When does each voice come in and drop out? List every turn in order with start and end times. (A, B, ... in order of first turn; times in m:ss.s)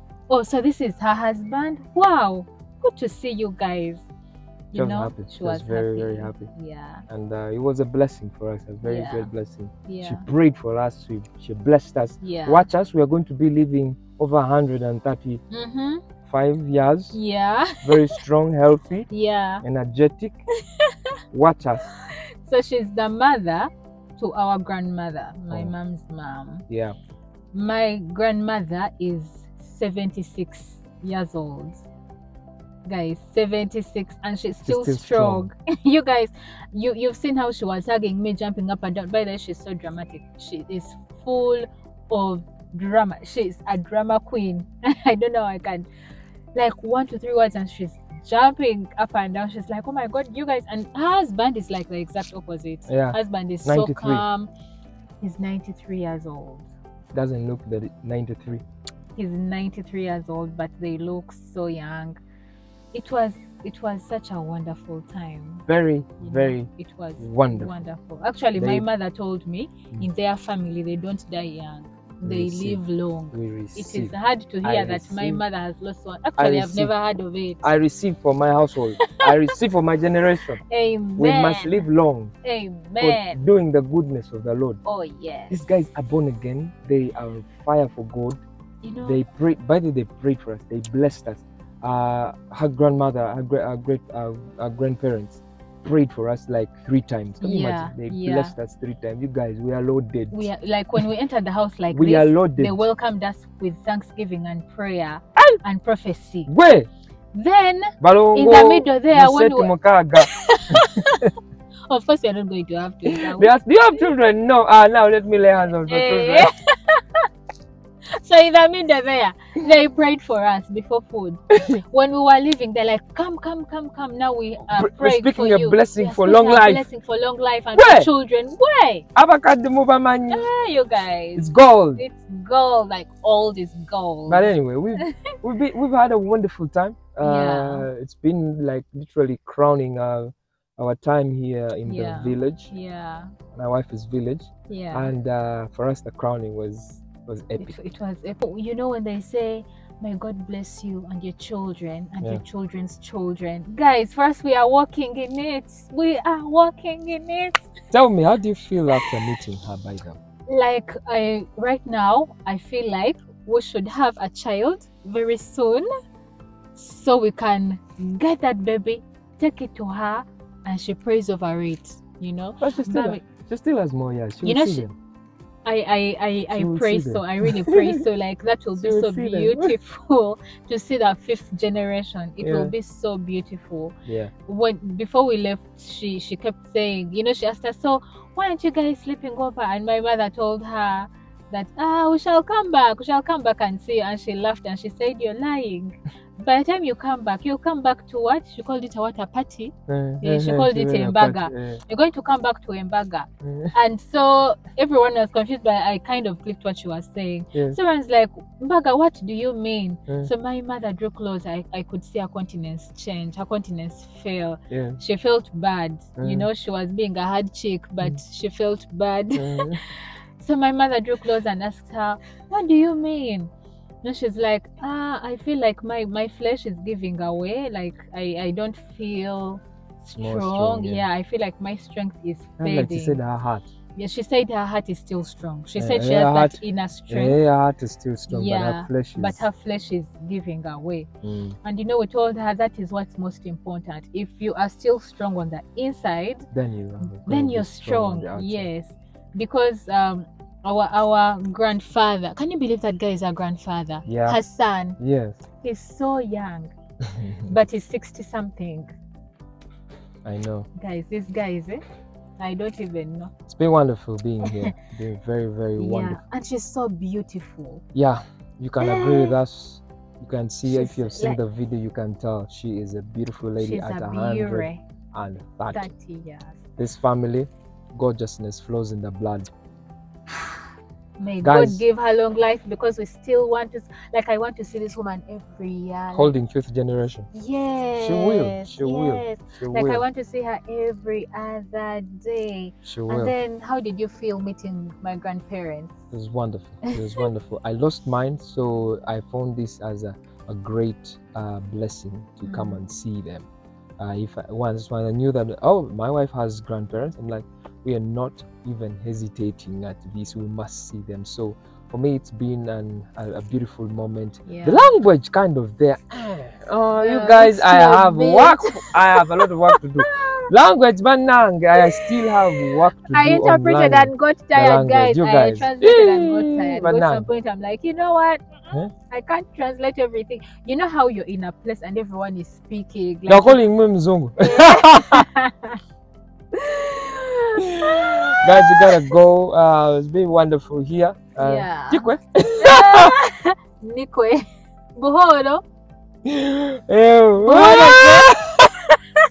0:00.3-0:04.1 A
0:04.7-0:07.1 A
0:04.7-0:06.5 B
0:07.1-0:15.4 B
0:08.8-0:09.3 A
0:09.9-0:10.3 A
0:12.2-0:12.7 A
0:15.5-0:16.0 A
0:16.2-0:17.2 B
0:17.1-0:18.2 A
0:17.8-0:19.1 B
0:19.1-0:19.6 A
0:19.6-0:20.4 B
0:21.3-0:21.9 B
0:22.1-0:26.6 A
0:26.7-0:27.0 B
0:27.5-0:31.9 A
0:32.9-0:45.9 A
0:34.6-0:35.5 B
0:46.6-0:54.5 A
0:52.9-0:54.2 B
0:55.2-0:56.7 A
0:57.1-0:58.6 B
0:59.2-1:02.2 A
1:02.9-1:05.7 A
1:05.7-1:07.9 B
1:06.2-1:17.7 A
1:08.6-1:08.9 B
1:12.2-1:15.4 B
1:16.4-1:16.9 B
1:17.6-1:20.6 B
1:19.0-1:19.4 A
1:20.7-1:21.9 A
1:21.2-1:22.3 B
1:22.4-1:23.4 A
1:23.0-1:24.8 B
1:24.8-1:25.6 A
1:25.5-1:28.4 B
1:28.8-1:29.2 A
1:29.0-1:41.0 B
1:37.4-1:38.5 A
1:40.3-1:46.5 A
1:41.9-1:42.8 B
1:46.5-1:46.9 B
1:47.3-1:49.8 A
1:48.0-1:51.3 B
1:50.3-1:51.3 A
1:51.9-1:53.5 A
1:53.1-1:56.5 B
1:55.9-1:57.2 A
1:58.2-2:09.1 A
2:01.5-2:01.8 B
2:04.7-2:06.9 B
2:07.7-2:08.1 B
2:09.2-2:10.5 B
2:10.3-2:15.3 A
2:11.4-2:12.0 B
2:14.3-2:22.7 B
2:17.2-2:17.9 A
2:21.9-2:23.3 A
2:23.5-2:27.8 B
2:24.7-2:25.1 A
2:27.6-2:37.6 A
2:37.9-2:40.2 B
2:40.5-2:45.9 A
2:46.8-2:53.2 A
2:52.6-2:55.0 B
2:54.4-2:54.9 A
2:55.6-3:04.0 A
2:56.5-2:58.0 B
2:58.8-2:59.8 B
3:02.4-3:02.7 B
3:04.1-3:04.3 B
3:04.5-3:43.5 A
3:19.9-3:21.8 B
3:23.4-3:23.7 B
3:34.7-3:35.0 B
3:36.2-3:36.5 B
3:39.4-3:39.8 B
3:44.0-3:53.2 A
3:50.2-3:51.1 B
3:52.6-3:53.7 B
3:54.0-3:57.4 A
3:55.8-3:59.5 B
3:58.3-4:01.1 A
4:01.2-4:01.6 B
4:01.6-4:06.5 A
4:06.5-4:08.7 B
4:07.0-4:15.0 A
4:14.1-4:14.4 B
4:15.0-4:15.4 B
4:15.6-4:16.7 A
4:17.1-4:17.5 B
4:17.4-4:18.9 A
4:20.2-4:20.7 B
4:20.8-4:21.8 A
4:22.4-4:23.3 A
4:23.5-4:26.2 B
4:24.4-4:24.7 A
4:25.8-4:27.8 A
4:27.9-4:35.9 B
4:30.7-4:31.4 A
4:33.6-4:34.8 A
4:35.7-4:36.6 A
4:36.8-4:39.5 B
4:41.2-4:46.3 A
4:41.4-4:41.8 B
4:46.1-4:47.3 B
4:47.3-4:56.0 A
4:48.0-4:50.0 B
4:52.8-4:53.4 B
4:56.1-5:03.5 B
4:56.9-4:57.2 A
5:02.4-5:02.8 A
5:04.0-5:27.3 B
5:14.5-5:14.9 A
5:17.0-5:20.5 A
5:21.8-5:22.3 A
5:23.0-5:33.6 A
5:33.3-5:35.3 B
5:34.4-5:35.8 A
5:36.6-5:37.6 A
5:37.8-5:43.2 B
5:38.1-5:39.0 A
5:41.4-5:45.6 A
5:46.2-5:48.7 B
5:47.4-5:48.8 A